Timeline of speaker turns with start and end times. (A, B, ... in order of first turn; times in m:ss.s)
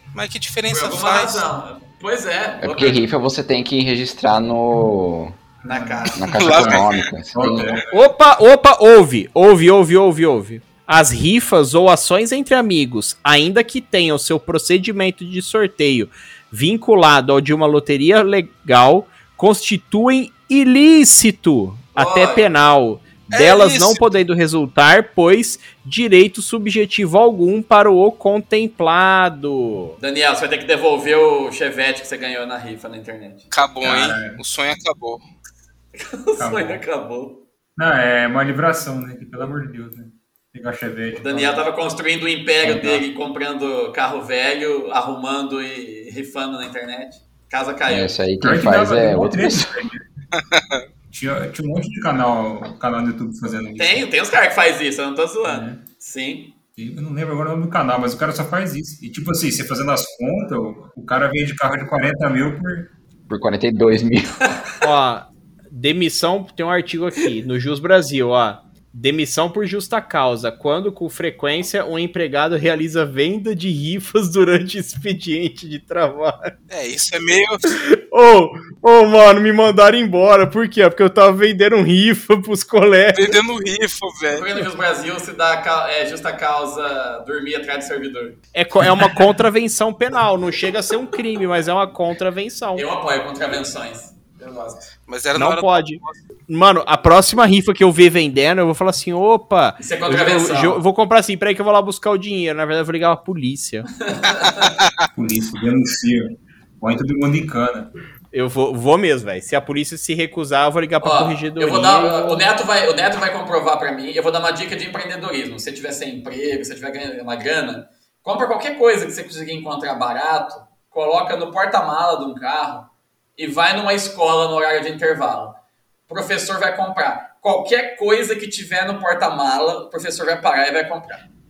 0:00.1-0:01.4 A
0:00.7-0:03.0 B
0:02.6-0:05.4 C
0:05.6-0:06.7 B
0:05.6-0:07.8 D
0:06.1-0:07.8 C
0:06.3-0:07.1 A
0:07.9-0:30.0 E
0:21.9-0:22.5 B
0:23.3-0:24.1 A
0:30.0-0:33.5 B
0:33.5-0:35.2 A
0:33.8-0:34.4 D
0:36.0-0:37.4 B
0:36.4-0:36.8 D
0:37.8-0:41.6 D
0:41.1-0:48.2 B
0:42.6-0:43.0 D
0:47.9-0:49.7 C
0:48.4-0:50.0 D
0:51.1-0:54.0 D
0:53.8-0:56.6 B
0:55.4-0:55.8 D
0:56.8-1:02.9 D
1:03.3-1:04.4 C
1:04.8-1:16.5 E
1:16.7-1:17.6 A
1:17.7-1:23.3 E
1:23.1-1:24.5 A
1:24.3-1:28.4 B
1:28.5-1:32.8 E
1:32.8-1:34.9 B
1:35.0-1:36.2 A
1:35.3-1:43.9 E
1:39.8-1:40.8 B
1:44.0-1:44.7 B
1:45.1-1:47.9 D
1:48.3-1:52.4 E
1:51.0-2:11.2 B